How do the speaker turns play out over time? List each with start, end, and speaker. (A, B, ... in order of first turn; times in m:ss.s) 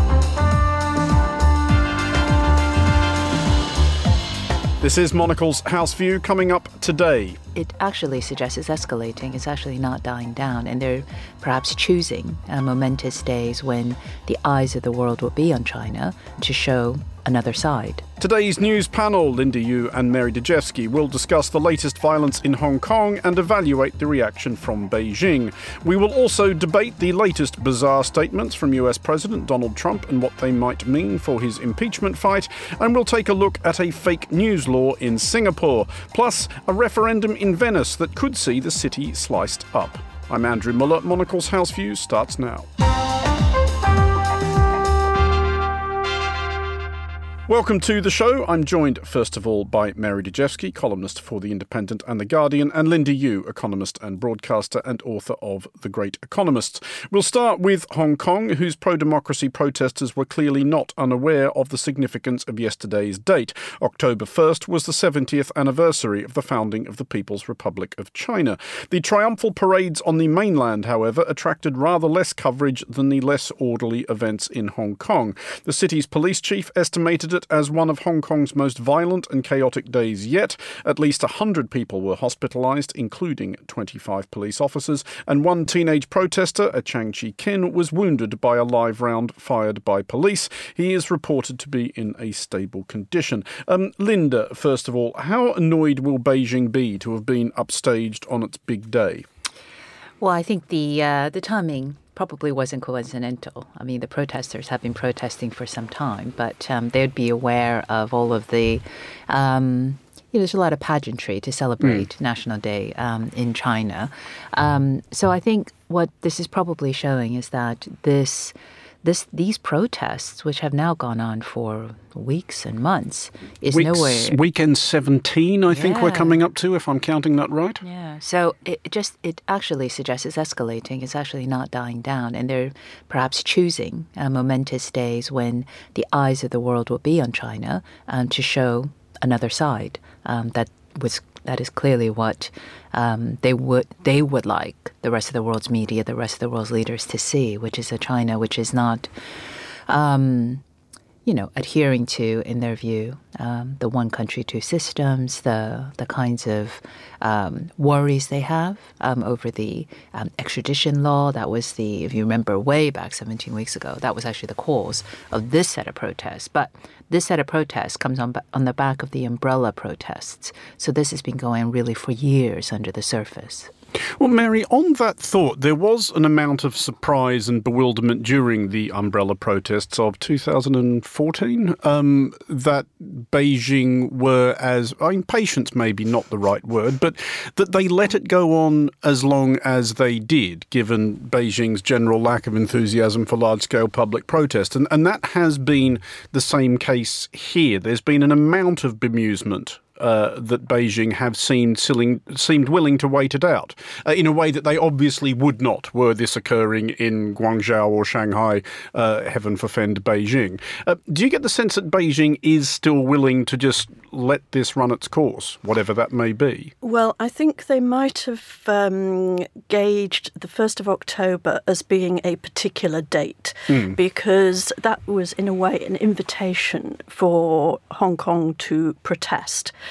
0:04.8-0:07.4 A
0:07.5-0:18.0 B
0:18.2-0:42.7 A
0:47.5-1:39.3 A
1:40.2-2:04.4 B
2:03.7-2:07.8 A
2:05.7-2:06.4 B
2:07.8-2:29.1 B
2:29.9-2:30.6 B
2:31.3-2:53.7 B
2:54.2-3:36.7 A
3:36.8-3:49.7 C
3:43.7-3:44.0 A